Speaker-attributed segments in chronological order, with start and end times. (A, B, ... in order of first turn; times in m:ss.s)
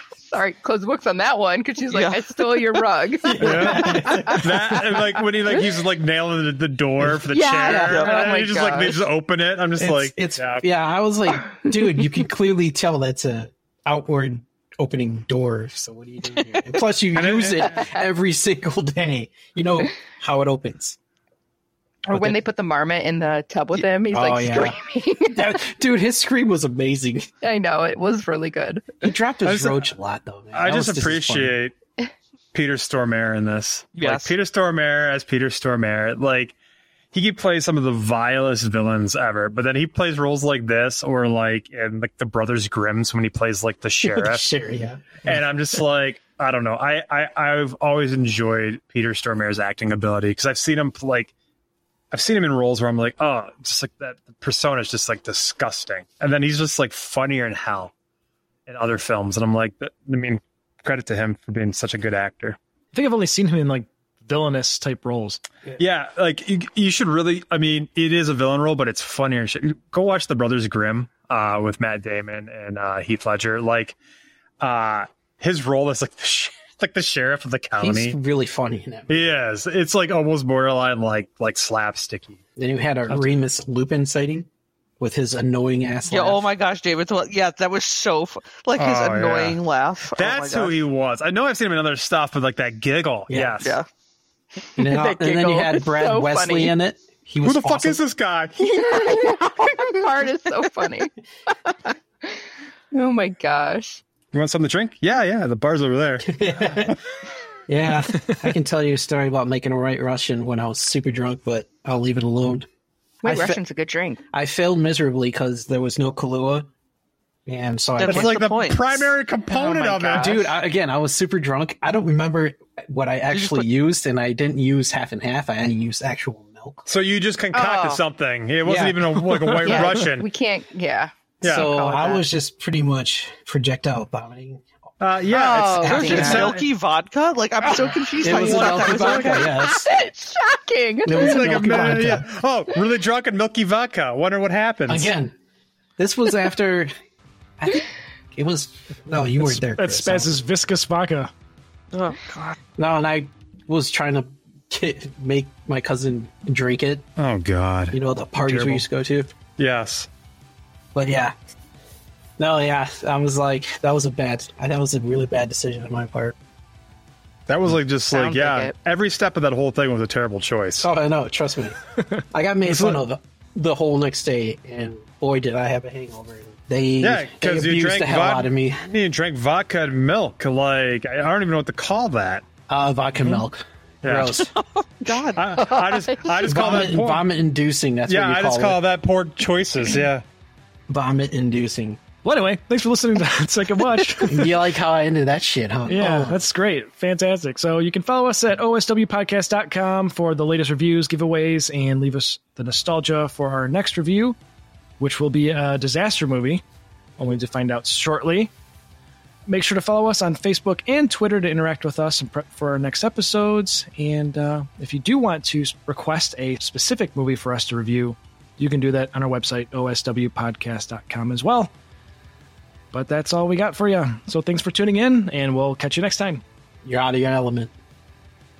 0:00.2-0:05.0 A
0:01.9-0:02.8 B
0:03.2-0:04.7 C
0:03.4-0:10.6 D
0:07.0-0:07.8 C
0:07.3-0:09.0 A
0:07.9-0:08.3 B
0:09.8-0:21.0 C
0:17.1-0:17.9 D
0:22.1-0:22.4 C
0:22.1-0:25.6 A
0:24.1-0:24.8 C
0:25.3-0:27.3 C
0:27.4-0:29.1 A
0:29.0-0:31.6 C
0:29.4-0:29.8 D
0:30.5-0:31.7 D
0:32.5-0:36.6 D
0:34.0-0:34.3 B
0:37.1-0:44.4 D
0:44.0-0:45.4 C
0:45.2-0:51.3 D
0:52.1-0:57.9 D
0:58.7-1:02.6 D
1:02.9-1:05.4 E
1:05.8-1:14.0 D
1:14.6-1:18.2 D
1:17.8-1:19.4 C
1:19.1-1:22.4 D
1:22.6-1:24.5 C
1:25.0-1:26.4 C
1:26.1-1:30.8 B
1:28.8-1:29.6 D
1:30.1-1:33.8 D
1:33.3-1:33.7 C
1:34.7-1:36.8 A
1:34.8-1:38.0 C
1:37.4-1:38.6 D
1:38.6-1:44.0 A
1:38.9-1:40.0 C
1:44.3-1:47.0 D
1:46.2-1:47.0 C
1:47.7-1:52.7 C
1:53.2-1:53.6 C
1:53.2-1:54.2 A
1:54.3-1:56.7 C
1:57.4-1:58.4 C
1:58.0-2:00.4 D
1:58.0-2:00.4 B
2:00.1-2:06.8 C
2:03.3-2:03.6 B
2:06.9-2:10.3 D
2:07.5-2:08.0 A
2:08.6-2:10.0 C
2:09.6-2:12.2 A
2:11.4-2:11.7 D
2:11.4-2:14.6 C
2:15.0-2:16.6 D
2:15.3-2:16.5 A
2:15.8-2:16.5 C
2:15.8-2:19.5 B
2:17.9-2:19.5 D
2:18.2-2:19.9 C
2:19.1-2:21.8 A
2:21.0-2:22.3 C
2:21.1-2:25.1 D
2:24.9-2:25.3 C
2:26.0-2:26.9 C
2:27.6-2:30.4 C
2:29.4-2:31.3 E
2:31.9-2:32.6 B
2:32.8-2:37.1 C
2:37.2-2:38.8 D
2:37.9-2:39.3 C
2:39.6-2:40.1 D
2:40.9-2:41.3 C
2:42.4-2:46.4 C
2:47.5-2:50.9 D
2:48.1-2:48.7 A
2:50.8-2:58.8 C
2:52.6-2:53.0 D
2:57.0-3:02.4 D
3:02.7-3:04.5 C
3:04.0-3:04.5 D
3:04.5-3:05.4 B
3:05.4-3:07.2 D
3:05.5-3:06.5 A
3:06.4-3:08.8 C
3:08.1-3:10.2 D
3:10.9-3:12.0 C
3:12.2-3:14.6 E
3:14.2-3:16.4 C
3:15.9-3:24.4 E
3:25.0-3:26.6 E
3:27.2-3:28.5 E
3:29.5-3:41.7 E
3:42.9-3:46.4 E
3:46.8-3:47.7 C